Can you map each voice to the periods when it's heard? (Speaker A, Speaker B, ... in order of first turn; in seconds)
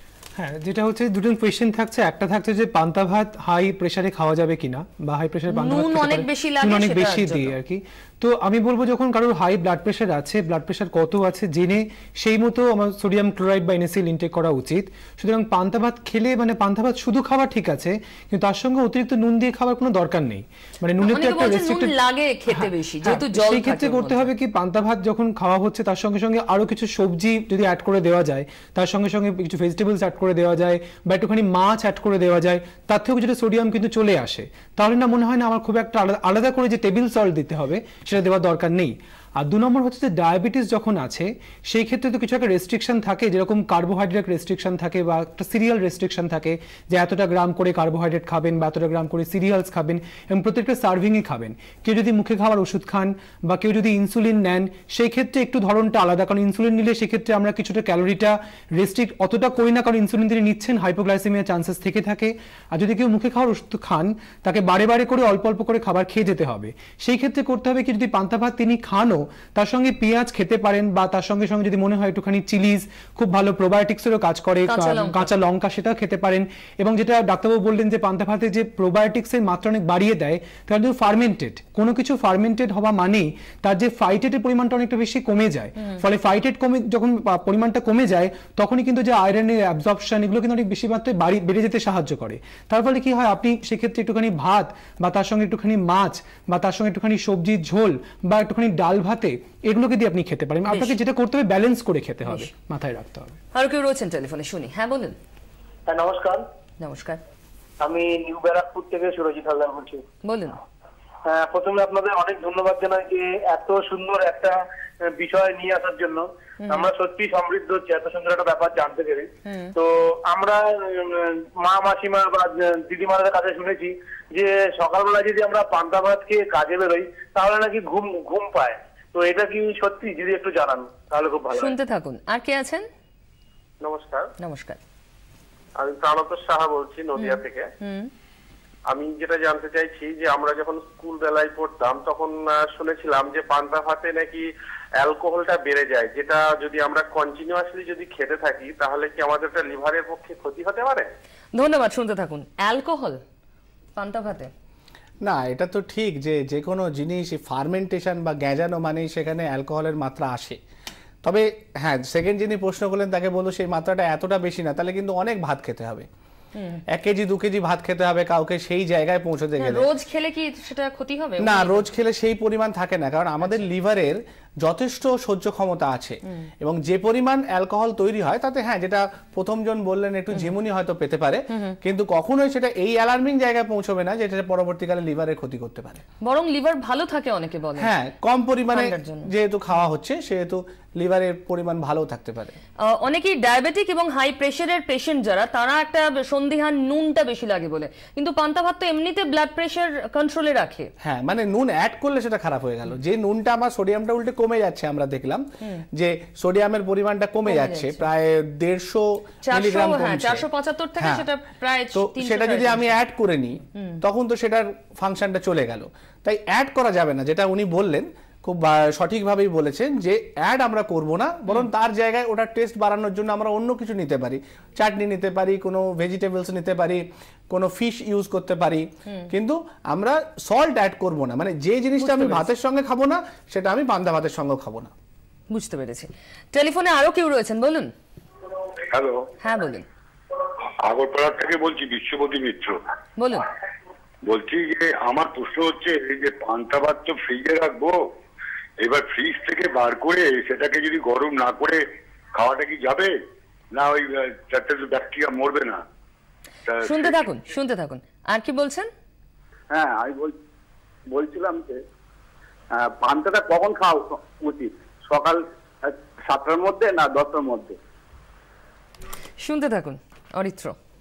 Speaker A: 0.4-21.9, 22.5-103.4
Speaker B: 5.5-7.5, 21.0-24.3, 74.7-75.3, 100.7-101.0, 102.2-102.5, 103.5-105.1, 106.8-107.2, 110.2-110.6, 116.6-116.9, 119.4-119.7, 131.5-132.8, 134.4-134.8, 137.1-138.1, 151.5-153.2, 153.9-154.5, 166.5-166.8, 169.6-171.8, 186.2-187.9, 188.7-189.3, 192.9-200.9, 207.5-208.0, 209.4-213.0, 213.7-214.0, 232.0-232.4, 235.5-237.9, 239.4-239.8, 243.2-243.5, 256.8-258.9, 269.4-270.7
Speaker C: 105.9-106.4, 107.8-110.0, 111.2-131.7
Speaker D: 133.8-134.3, 135.8-137.6, 138.9-144.4, 145.0-151.1
Speaker E: 155.2-160.6, 161.2-166.1, 166.9-169.9, 171.4-186.0, 187.8-192.6, 201.0-210.4, 211.0-211.2, 211.9-234.9
Speaker F: 238.9-239.2, 240.8-242.8, 244.2-248.0, 248.8-251.8, 252.3-253.1, 253.7-255.8, 256.7-257.1
Speaker G: 259.7-260.3, 261.1-261.8, 262.7-267.7